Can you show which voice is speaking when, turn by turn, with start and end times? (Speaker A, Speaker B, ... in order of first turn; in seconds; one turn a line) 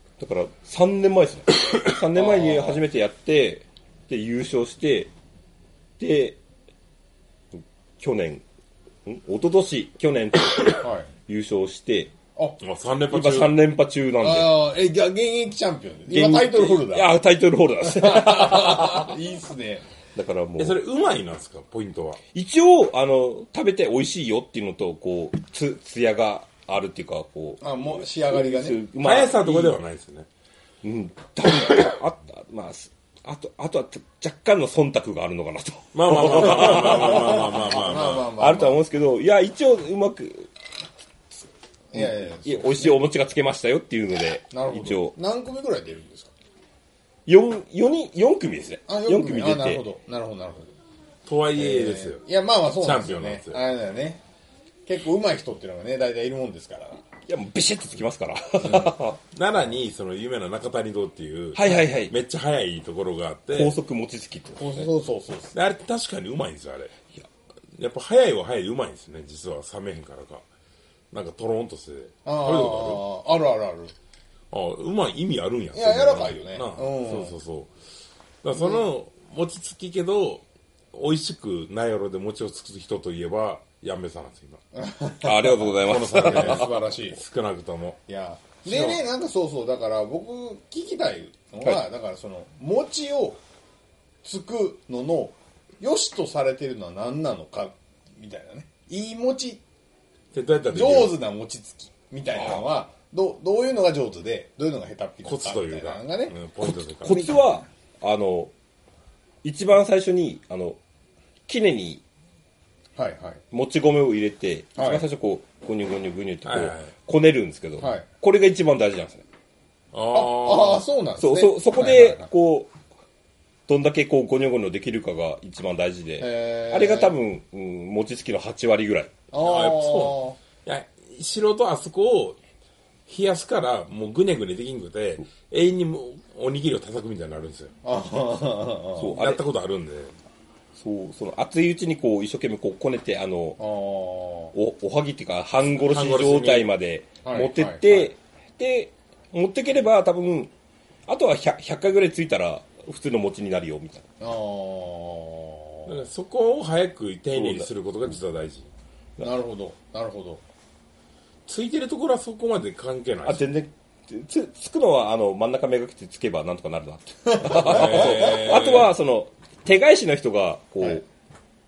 Speaker A: 0.2-5.1
Speaker B: 2.1-2.8
Speaker A: 6.0-6.4
Speaker A: 7.5-8.4
Speaker A: 9.1-12.1
Speaker B: 10.8-11.1
Speaker C: 12.6-13.6
Speaker A: 13.1-14.5
Speaker B: 14.2-17.1
Speaker A: 16.1-19.1
Speaker B: 17.8-19.8
Speaker A: 20.1-20.8
Speaker C: 20.6-22.2
Speaker A: 22.3-29.8
Speaker B: 27.6-28.8
Speaker C: 29.0-30.3
Speaker A: 30.8-37.4
Speaker C: 35.9-38.3
Speaker B: 36.2-38.8
Speaker A: 38.4-40.5
Speaker B: 41.9-43.0
Speaker A: 41.9-45.1
Speaker B: 44.5-46.3
Speaker A: 47.3-49.8
Speaker B: 48.9-50.7
Speaker C: 51.2-52.2
Speaker B: 51.5-54.2
Speaker C: 52.8-53.6
Speaker B: 54.9-57.0
Speaker A: 57.3-59.2
Speaker C: 58.7-63.8
Speaker A: 61.5-62.1
Speaker A: 63.5-64.9
Speaker B: 64.6-65.5
Speaker C: 65.5-67.0
Speaker C: 67.7-70.4
Speaker C: 71.1-73.0
Speaker B: 72.2-73.9
Speaker C: 74.5-77.7
Speaker B: 75.7-77.3
Speaker C: 78.4-84.6
Speaker B: 78.5-78.8
Speaker B: 84.7-87.2
Speaker A: 85.2-86.7
Speaker C: 85.7-88.0
Speaker B: 88.1-93.4
Speaker C: 88.7-89.0
Speaker B: 94.2-99.6
Speaker C: 100.3-101.2
Speaker B: 100.7-107.6
Speaker C: 105.2-107.3
Speaker A: 106.6-108.5
Speaker A: 109.4-110.8
Speaker A: 111.5-112.0
Speaker B: 113.0-113.4
Speaker A: 113.5-119.2
Speaker B: 114.8-115.0
Speaker C: 116.4-116.9
Speaker B: 117.8-118.0
Speaker C: 119.9-120.8
Speaker B: 120.1-122.3
Speaker A: 121.2-122.7
Speaker A: 123.7-129.1
Speaker B: 126.2-127.2
Speaker B: 129.3-130.4
Speaker C: 129.4-132.4
Speaker C: 133.1-137.7
Speaker B: 137.8-139.2
Speaker A: 139.0-139.4
Speaker C: 139.1-140.2
Speaker A: 140.8-143.6
Speaker B: 143.6-144.5
Speaker A: 144.5-150.5
Speaker C: 145.8-146.7
Speaker B: 147.2-148.1
Speaker A: 151.1-154.0
Speaker B: 154.2-156.0
Speaker C: 155.8-158.7
Speaker A: 157.3-157.7
Speaker B: 159.2-160.4
Speaker C: 161.4-163.5
Speaker A: 163.2-171.0
Speaker B: 167.3-168.5
Speaker C: 167.6-168.9